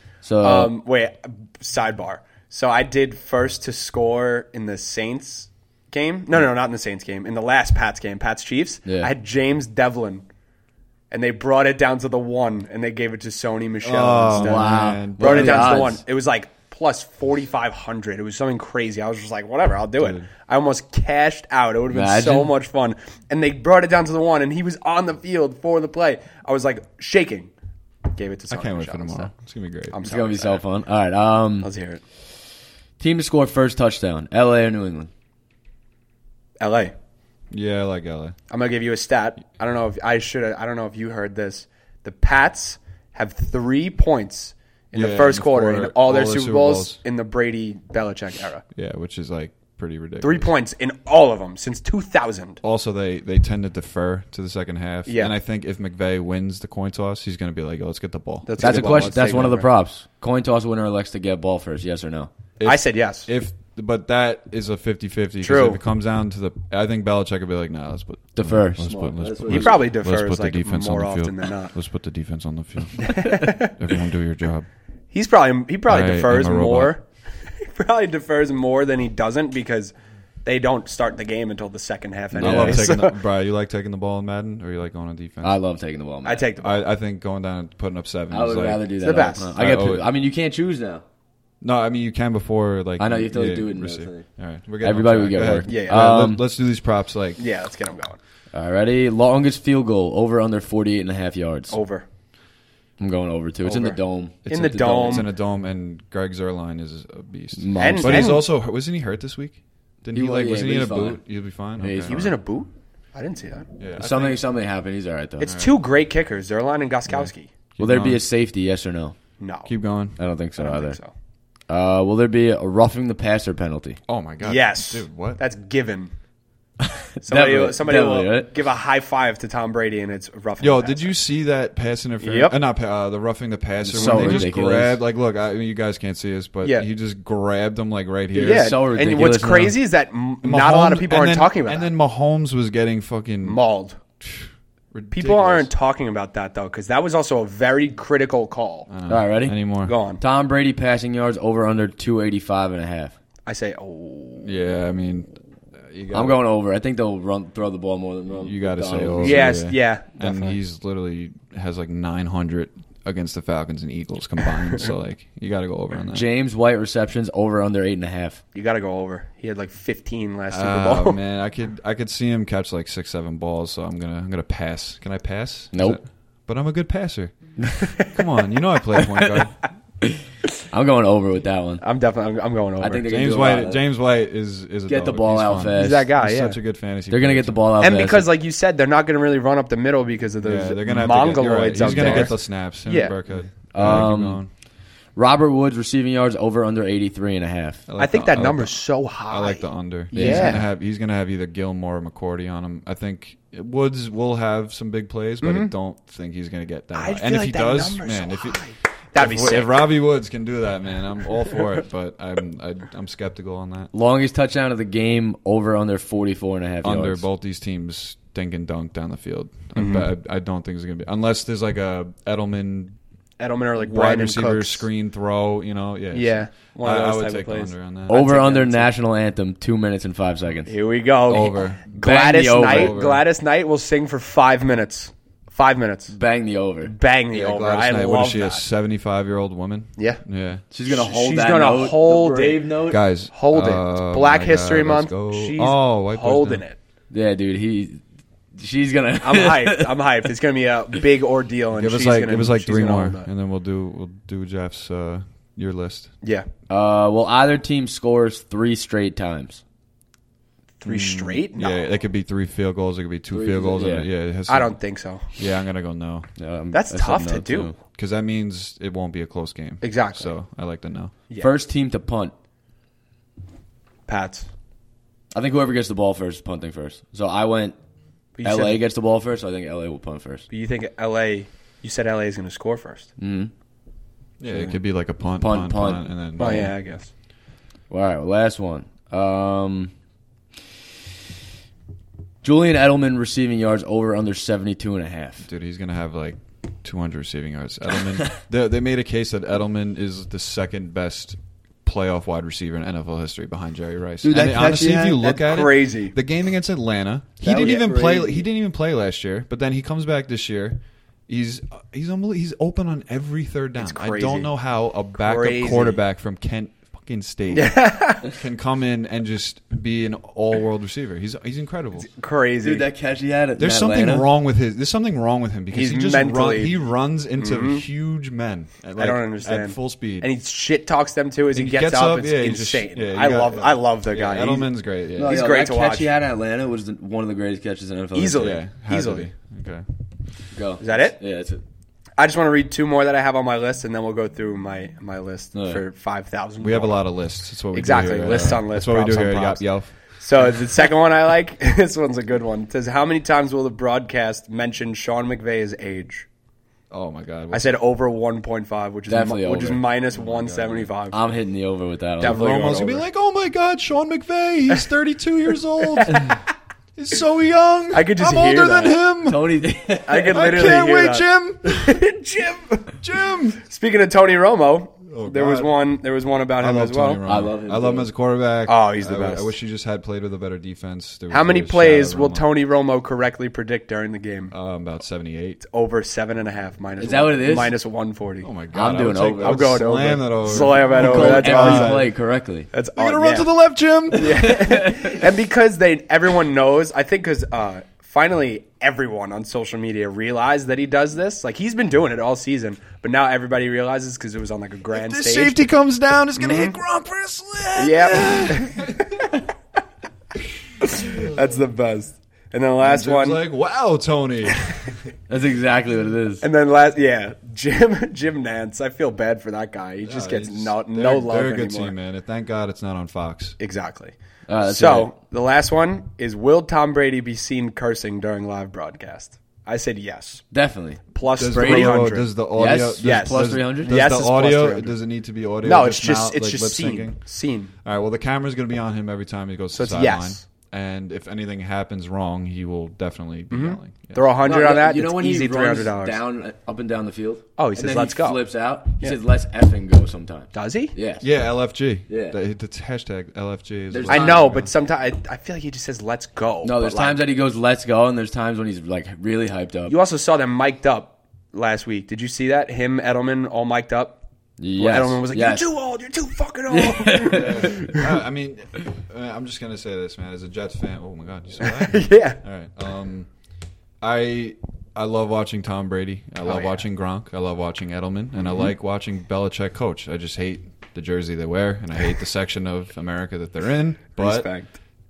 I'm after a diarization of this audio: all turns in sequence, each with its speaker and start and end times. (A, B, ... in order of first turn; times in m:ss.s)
0:00.2-0:00.7 A
0:00.4-0:10.2 B
0:08.8-0:09.1 A
0:11.1-0:27.5 B
0:13.8-0:15.9 C
0:14.3-0:16.0 A
0:20.0-0:20.3 C
0:21.9-0:22.5 A
0:28.1-0:29.3 B
0:28.5-0:30.0 C
0:29.9-0:30.6 B
0:30.0-0:31.7 A
0:31.6-0:32.0 B
0:33.0-0:35.1 A
0:36.6-0:36.9 B
0:37.5-0:38.4 C
0:38.5-0:48.6 B
0:44.9-0:47.0 C
0:48.7-0:50.5 C
0:50.2-0:52.6 B
0:52.6-0:59.2 C
0:55.1-0:55.3 B
0:58.4-0:59.7 B
0:58.6-1:02.3 A
1:02.6-1:14.7 C
1:02.6-1:03.3 B
1:05.4-1:05.8 B
1:08.4-1:09.8 A
1:09.5-1:11.7 B
1:13.0-1:13.7 B
1:15.1-1:23.2 B
1:15.9-1:16.9 C
1:22.3-1:22.9 A
1:22.4-1:25.6 C
1:25.4-1:26.5 A
1:26.2-1:26.8 B
1:26.6-1:30.1 C
1:28.3-1:31.0 A
1:29.0-1:29.5 B
1:31.6-1:37.4 C
1:33.0-1:34.3 A
1:34.8-1:36.4 A
1:35.7-1:36.1 B
1:37.4-1:38.2 B
1:38.5-1:41.8 A
1:41.7-1:42.0 B
1:43.0-1:45.2 A
1:43.6-1:45.3 B
1:45.0-1:52.3 C
1:47.6-1:48.3 A
1:47.8-1:48.5 B
1:50.1-1:51.2 A
1:51.8-1:52.3 A
1:52.0-1:53.7 B
1:53.8-1:54.4 C
1:54.0-1:55.6 A
1:55.4-1:57.5 B
1:55.5-1:55.7 C
1:57.1-1:58.2 C
1:57.8-1:59.2 A
1:59.4-1:59.7 B
1:59.6-2:00.2 C
2:00.2-2:01.0 A
2:00.6-2:01.1 B
2:01.7-2:04.0 A
2:04.1-2:05.4 C
2:04.4-2:06.1 B
2:07.2-2:08.5 A
2:07.2-2:11.1 B
2:10.6-2:18.8 C
2:12.2-2:12.6 B
2:13.8-2:15.0 A
2:14.0-2:14.4 B
2:18.3-2:19.8 A
2:18.4-2:21.9 B
2:20.4-2:23.6 C
2:23.4-2:24.0 B
2:24.2-2:25.7 C
2:25.1-2:28.9 B
2:28.9-2:29.9 C
2:29.1-2:29.6 A
2:29.8-2:30.2 B
2:30.2-2:33.1 A
2:33.4-2:34.5 B
2:34.4-2:36.4 C
2:36.1-2:39.6 A
2:38.4-2:46.3 C
2:39.2-2:40.6 B
2:46.1-2:48.4 A
2:48.5-2:51.2 B
2:50.5-2:59.6 C
2:55.7-2:56.0 A
2:59.0-2:59.2 B
3:00.7-3:01.8 A
3:01.8-3:03.1 B
3:02.8-3:03.8 A
3:03.1-3:07.6 C
3:04.9-3:06.1 A
3:05.8-3:06.6 B
3:07.1-3:08.3 A
3:07.8-3:13.1 B
3:10.4-3:14.5 C
3:11.8-3:12.3 A
3:13.7-3:14.5 A
3:15.2-3:17.8 A
3:17.9-3:28.6 C
3:18.0-3:20.6 B
3:20.1-3:20.6 A
3:25.4-3:25.7 B
3:26.9-3:29.8 B
3:29.1-3:33.9 C
3:33.9-3:37.2 A
3:36.8-3:43.0 C
3:39.7-3:40.1 B
3:43.4-3:44.8 B
3:43.8-3:48.2 C
3:46.1-3:48.9 B
3:48.1-3:50.7 A
3:50.6-3:56.1 B
3:51.3-3:51.8 C
3:52.0-3:52.9 A
3:52.7-3:53.2 C
3:56.1-3:56.9 A
3:56.8-3:58.6 B
3:57.3-4:00.6 C
4:00.7-4:03.0 A
4:00.9-4:02.7 B
4:02.9-4:06.6 C
4:03.3-4:06.8 B
4:07.1-4:08.0 A
4:08.5-4:10.0 A
4:09.2-4:13.3 B
4:11.8-4:16.1 C
4:16.2-4:16.5 B
4:16.7-4:19.6 A
4:20.8-4:21.8 B
4:20.8-4:24.8 C
4:23.3-4:24.1 A
4:24.5-4:25.3 B
4:25.3-4:26.3 C
4:26.4-4:27.8 A
4:26.7-4:27.7 B
4:28.0-4:31.1 C
4:29.8-4:30.3 B
4:31.4-4:32.3 A
4:34.1-4:34.5 B
4:35.3-4:37.8 A
4:38.4-4:38.8 B
4:38.4-4:40.5 A
4:40.5-4:43.1 B
4:43.2-4:43.5 A
4:44.4-4:46.7 C
4:44.5-4:44.8 A
4:45.4-4:46.7 A
4:46.4-4:47.1 B
4:47.9-4:49.9 A
4:52.4-4:55.5 A
4:55.4-5:22.1 C
5:04.2-5:05.2 A
5:05.2-5:06.1 B
5:07.4-5:08.4 A
5:13.8-5:14.5 B
5:15.2-5:16.0 B
5:17.5-5:18.2 B
5:22.0-5:22.9 B
5:22.6-5:24.3 A
5:23.6-5:30.3 C
5:25.7-5:26.8 B
5:27.4-5:27.8 B
5:29.0-5:34.7 B
5:31.5-5:35.4 C
5:35.1-5:38.6 A
5:35.2-5:36.1 B
5:38.1-5:39.3 B
5:38.4-5:39.8 C
5:40.5-5:41.6 A
5:40.8-5:41.2 B
5:42.2-5:47.0 B
5:45.5-5:45.8 A
5:46.6-5:50.0 C
5:47.7-5:56.3 B
5:56.9-5:57.8 C
5:57.5-6:01.2 B
5:59.1-5:59.8 A
6:00.1-6:00.9 C
6:01.1-6:02.8 A
6:02.2-6:03.0 B
6:02.2-6:09.5 C
6:06.0-6:06.4 B
6:07.9-6:09.0 B
6:09.2-6:10.4 A
6:10.0-6:13.0 B
6:10.3-6:12.0 C
6:13.0-6:13.6 C
6:13.6-6:17.2 B
6:15.1-6:15.7 C
6:16.6-6:22.4 C
6:17.2-6:18.1 A
6:18.6-6:19.5 B
6:21.3-6:24.5 B
6:24.5-6:25.6 C
6:25.6-6:28.5 B
6:27.0-6:27.7 A
6:28.4-6:32.1 C
6:28.7-6:32.7 A
6:29.4-6:32.1 B
6:32.7-6:33.5 B
6:33.0-6:34.6 C
6:34.1-6:45.7 B
6:34.3-6:35.2 A
6:44.9-6:49.4 C
6:46.4-6:46.8 B
6:47.7-6:49.5 B
6:50.8-6:53.4 B
6:51.0-6:51.3 C
6:52.8-6:55.1 C
6:55.3-6:56.4 A
6:56.4-7:01.9 B
7:00.0-7:03.6 C
7:03.6-7:10.4 B
7:04.5-7:05.1 A
7:10.5-7:14.0 A
7:11.1-7:12.3 B
7:11.4-7:17.2 C
7:13.0-7:15.0 B
7:15.6-7:17.7 B
7:17.8-7:24.3 C
7:19.7-7:20.4 B
7:23.5-7:26.2 B
7:24.4-7:31.3 A
7:27.6-7:28.4 B
7:30.5-7:30.9 B
7:31.2-7:34.7 C
7:32.1-7:32.4 A
7:33.9-7:34.5 A
7:34.1-7:37.2 B
7:36.6-7:39.9 A
7:39.9-7:44.2 B
7:44.6-7:45.7 A
7:44.8-7:48.0 B
7:46.7-7:48.0 A
7:47.3-7:53.3 C
7:51.6-7:52.4 B
7:54.0-8:04.5 C
7:56.4-7:56.8 B
8:04.2-8:04.8 B